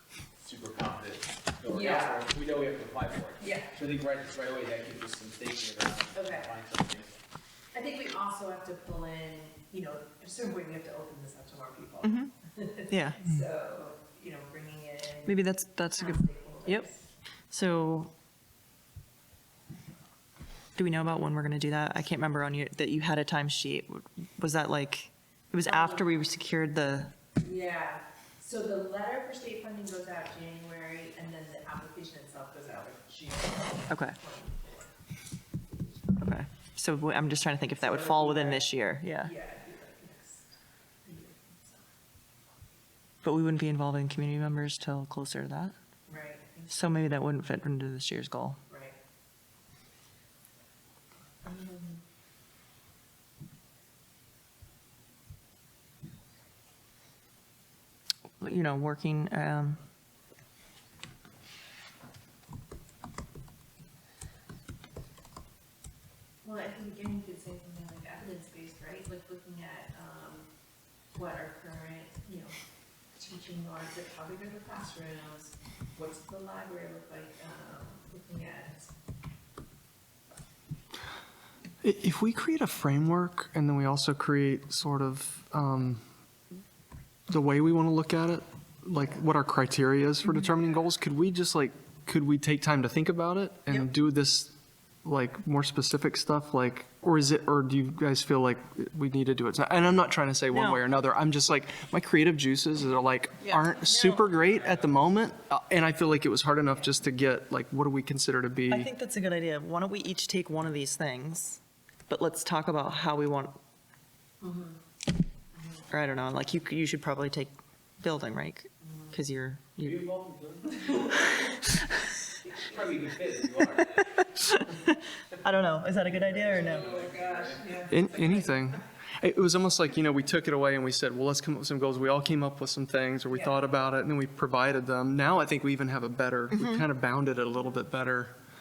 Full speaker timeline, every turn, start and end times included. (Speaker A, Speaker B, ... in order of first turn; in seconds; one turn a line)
Speaker A: 0.4-7.2
Speaker B: 1.7-2.3
Speaker B: 3.4-3.8
Speaker B: 6.1-6.6
Speaker B: 7.7-17.0
Speaker C: 12.0-12.3
Speaker C: 12.9-13.2
Speaker C: 15.2-16.9
Speaker C: 17.5-18.1
Speaker C: 20.8-27.1
Speaker B: 25.7-26.1
Speaker B: 27.4-34.9
Speaker C: 33.9-34.2
Speaker B: 35.7-36.2
Speaker C: 36.2-39.3
Speaker B: 37.8-38.7
Speaker B: 39.2-40.5
Speaker B: 41.0-41.9
Speaker C: 43.2-45.8
Speaker B: 46.1-47.2
Speaker C: 46.7-48.6
Speaker B: 48.7-49.0
Speaker B: 51.4-52.0
Speaker C: 58.4-59.8
Speaker B: 66.4-70.5
Speaker B: 71.1-72.5
Speaker B: 73.2-78.9
Speaker D: 81.8-86.0
Speaker D: 87.3-94.5
Speaker D: 95.0-108.9
Speaker C: 100.5-100.8
Speaker B: 103.8-104.5
Speaker C: 108.7-113.6
Speaker B: 114.4-114.8
Speaker B: 115.6-115.8
Speaker C: 115.9-120.0
Speaker B: 118.8-119.2
Speaker A: 119.8-121.4
Speaker B: 120.8-121.1
Speaker A: 122.5-124.7
Speaker C: 124.4-126.9
Speaker A: 125.9-128.0
Speaker B: 126.6-128.5
Speaker D: 127.9-138.3
Speaker C: 136.5-136.8